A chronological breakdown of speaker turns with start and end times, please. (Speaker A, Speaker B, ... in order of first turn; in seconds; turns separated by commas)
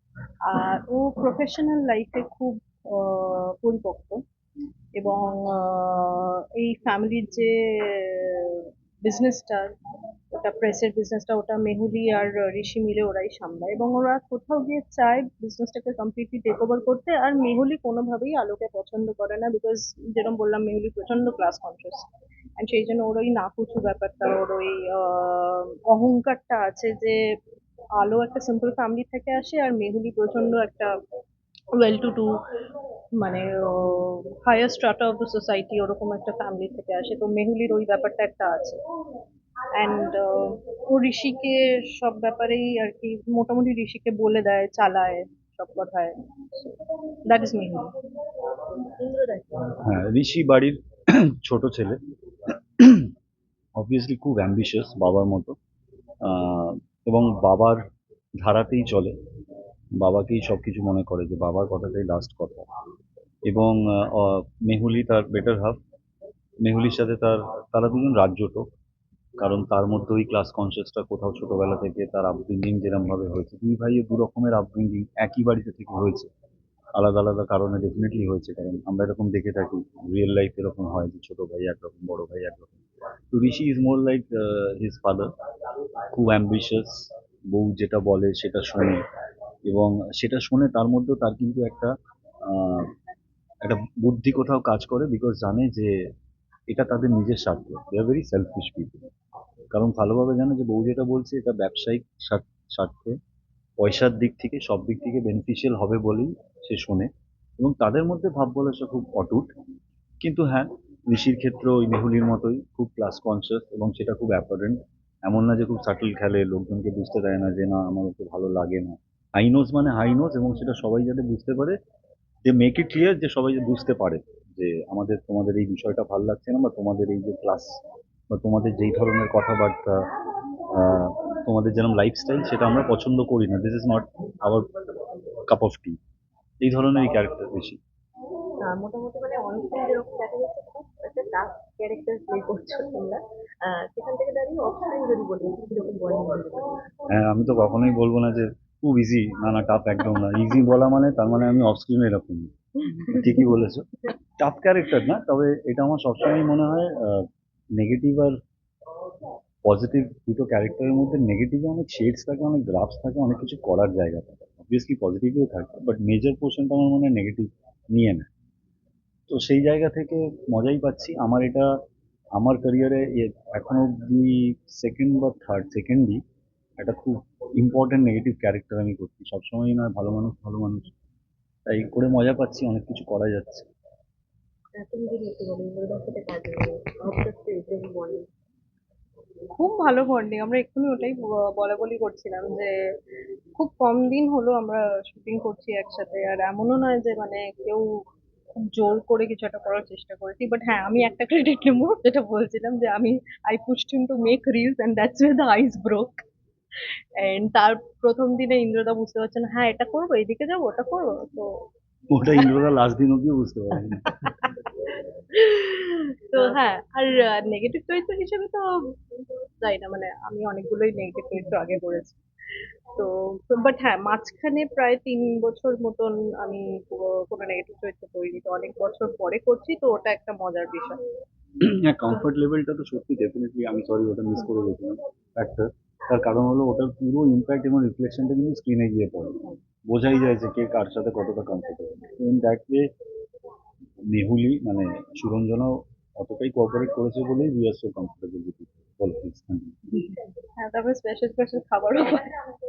Speaker A: 0.5-4.2, Speaker A: 5.0-9.7, Speaker A: 10.3-22.1, Speaker A: 22.6-27.2, Speaker A: 28.0-30.9, Speaker A: 31.8-32.3, Speaker A: 33.2-38.8, Speaker A: 39.8-46.1, Speaker A: 47.3-47.9, Speaker B: 49.0-49.7, Speaker C: 49.8-52.0, Speaker C: 52.8-53.1, Speaker C: 53.8-55.6, Speaker C: 56.2-57.8, Speaker C: 58.4-59.1, Speaker C: 60.0-62.7, Speaker C: 63.5-65.8, Speaker C: 66.6-68.7, Speaker C: 69.4-76.3, Speaker C: 77.0-82.8, Speaker C: 83.3-85.3, Speaker C: 86.1-89.0, Speaker C: 89.7-91.9, Speaker C: 92.5-92.9, Speaker C: 93.6-95.9, Speaker C: 96.7-99.1, Speaker C: 99.7-103.2, Speaker C: 103.8-109.5, Speaker C: 110.2-121.8, Speaker C: 122.5-127.8, Speaker C: 128.3-130.1, Speaker C: 130.7-134.7, Speaker C: 135.5-136.0, Speaker C: 136.6-137.8, Speaker B: 138.6-146.8, Speaker C: 147.1-152.5, Speaker C: 153.2-153.8, Speaker C: 154.4-158.4, Speaker C: 159.7-168.3, Speaker C: 169.3-171.7, Speaker C: 172.4-176.2, Speaker C: 176.8-180.9, Speaker C: 181.7-183.7, Speaker B: 184.8-188.3, Speaker A: 189.6-192.7, Speaker A: 193.6-197.9, Speaker A: 198.6-206.2, Speaker A: 207.2-211.7, Speaker C: 212.1-214.0, Speaker A: 215.4-218.7, Speaker A: 219.6-222.2, Speaker A: 222.9-231.0, Speaker C: 231.6-242.9, Speaker C: 244.1-249.8, Speaker A: 250.6-252.3